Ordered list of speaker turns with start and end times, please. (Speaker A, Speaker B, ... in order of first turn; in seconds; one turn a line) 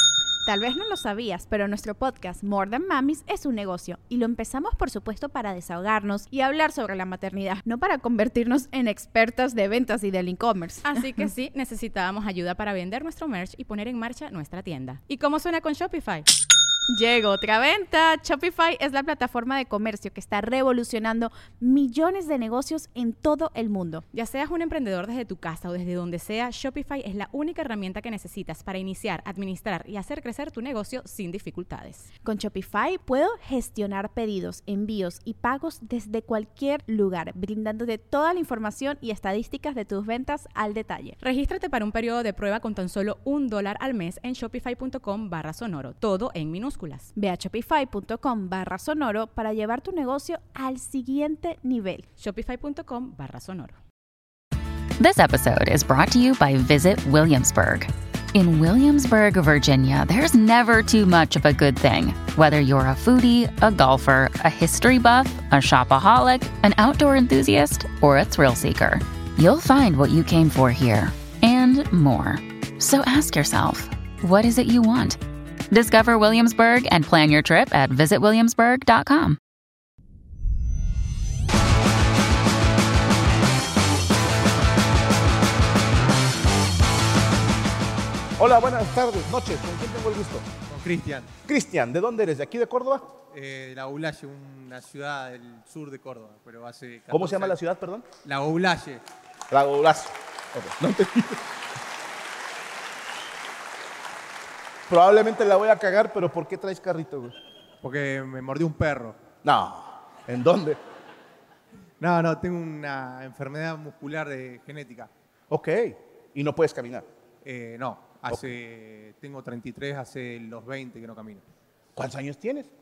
Speaker A: 0.5-11.2
Speaker B: 10.8-16.3
Speaker A: 16.9-24.0
Speaker B: 24.1-32.1
Speaker A: 32.2-41.2
Speaker B: 41.2-47.1
Speaker A: 47.2-52.0
Speaker B: 52.2-53.8
Speaker C: 55.0-75.2
Speaker C: 75.7-79.4
Speaker D: 88.4-90.5
Speaker E: 90.7-91.3
Speaker D: 91.5-93.1
Speaker E: 93.3-97.6
Speaker D: 97.1-98.1
Speaker E: 98.2-99.0
Speaker D: 99.5-101.4
Speaker D: 104.9-107.3
Speaker E: 107.8-109.2
Speaker D: 109.4-110.8
Speaker E: 112.0-115.1
Speaker D: 115.5-117.1
Speaker E: 117.4-121.4
Speaker D: 122.0-122.7